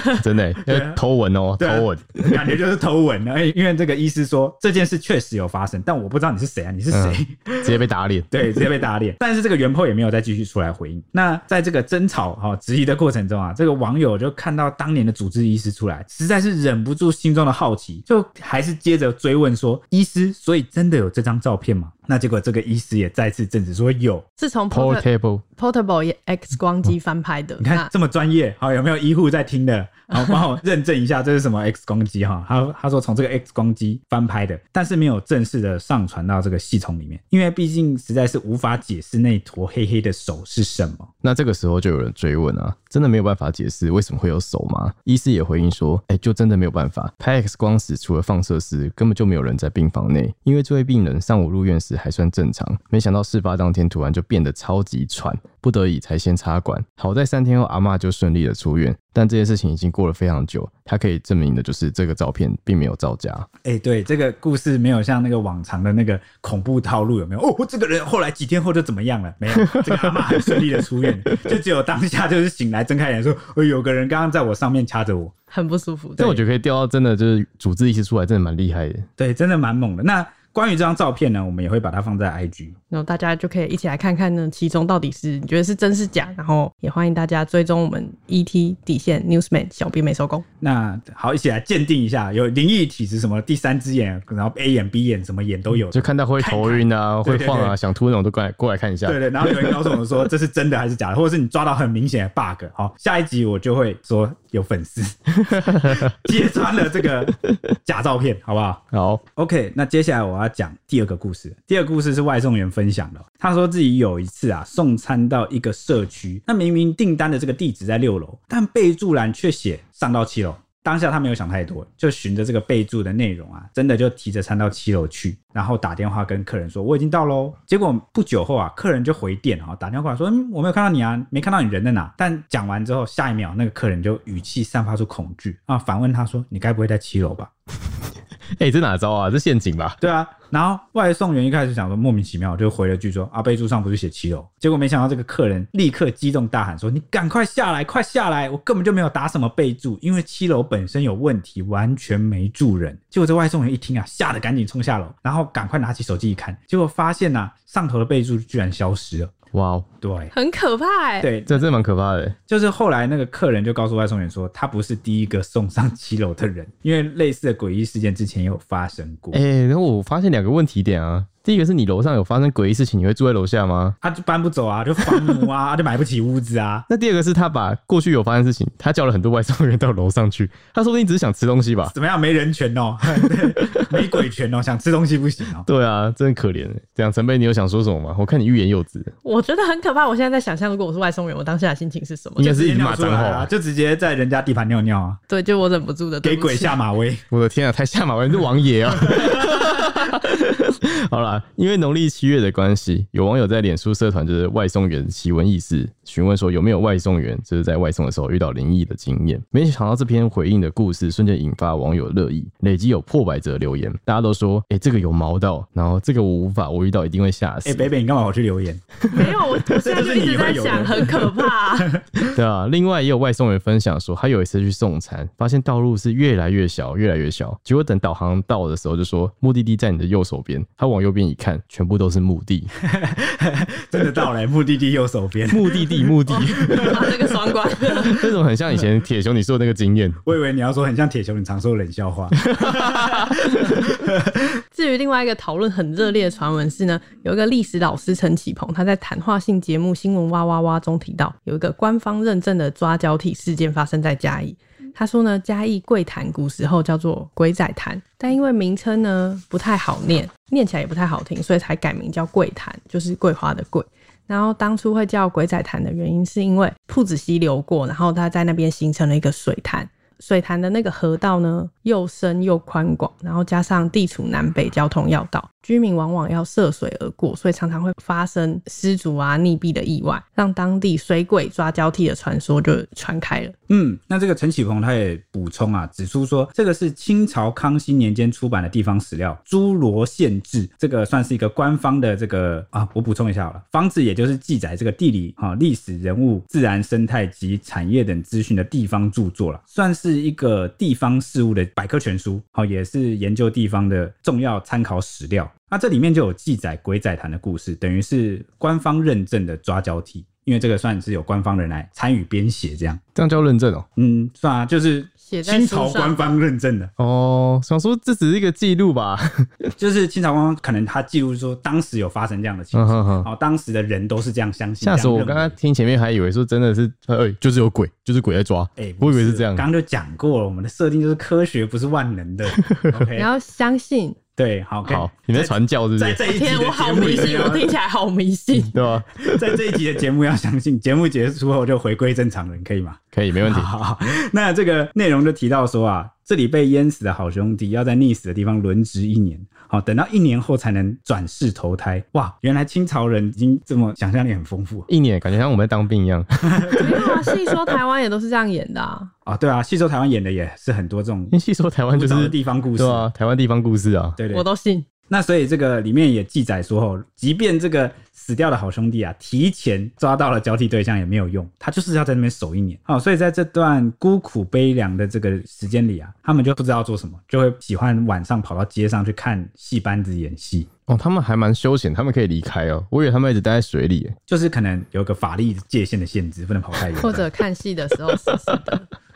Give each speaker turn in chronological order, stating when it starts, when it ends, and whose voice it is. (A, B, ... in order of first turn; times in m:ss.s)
0:00.2-0:02.4 A
0:00.6-0:01.0 B
0:01.6-0:07.8 B
0:06.9-0:08.4 A
0:08.3-0:24.2 B
0:24.4-0:27.9 C
0:24.7-0:25.4 A
0:27.6-0:41.1 B
0:41.2-1:03.4 A
1:03.6-1:15.3 B
1:15.5-1:16.4 C
1:16.2-1:19.0 A
1:19.2-1:22.8 B
1:22.9-1:30.4 C
1:30.6-1:37.8 B
1:35.9-1:39.7 A
1:39.0-1:47.3 B
1:47.8-1:48.8 B
1:48.9-1:49.2 A
1:49.4-2:17.5 B
2:18.6-2:20.0 A
2:20.0-2:39.3 B
2:39.5-2:39.8 A
2:40.0-2:40.3 B
2:40.3-2:41.3 C
2:41.2-2:41.6 B
2:41.5-2:42.4 A
2:42.5-2:49.4 B
2:49.3-2:53.9 A
2:54.0-2:56.8 B
2:56.9-3:01.9 A
3:01.8-3:05.6 B
3:03.5-3:04.2 A
3:05.6-3:09.1 A
3:09.2-3:12.5 C
3:12.4-3:15.2 B
3:12.4-3:13.5 A
3:15.3-3:16.8 C
3:16.2-3:17.2 B
3:17.3-3:37.8 A
3:37.6-3:38.9 B
3:39.1-3:41.9 C
3:39.7-3:42.2 B
3:42.3-3:52.7 A
3:52.9-3:57.3 B
3:55.5-3:57.2 A
3:56.3-3:58.3 C
3:57.8-4:00.2 A
4:00.2-4:04.4 B
4:02.5-4:03.2 A
4:04.7-4:43.5 C
4:43.7-5:13.0 B
5:13.2-5:13.8 A
5:14.0-5:16.9 B
5:15.2-5:16.2 C
5:17.0-5:19.5 A
5:19.8-5:25.5 B
5:22.7-5:23.3 A
5:24.8-5:29.6 A
5:28.8-5:33.3 B
5:32.5-5:33.0 A
5:33.1-5:34.2 C
5:34.4-5:37.7 B
5:34.8-5:36.2 A
5:36.2-5:38.7 C
5:38.5-5:39.6 A
5:39.2-5:54.9 B
5:43.1-5:43.7 A
5:54.9-5:57.6 A
5:56.5-5:56.8 B
5:56.7-5:59.1 C
5:59.2-6:01.3 B
6:01.3-6:04.2 A
6:01.9-6:03.1 B
6:04.2-6:04.4 B
6:04.3-6:04.8 C
6:05.1-6:20.7 B
6:20.9-6:24.2 A
6:24.3-6:27.3 B
6:27.0-6:28.8 C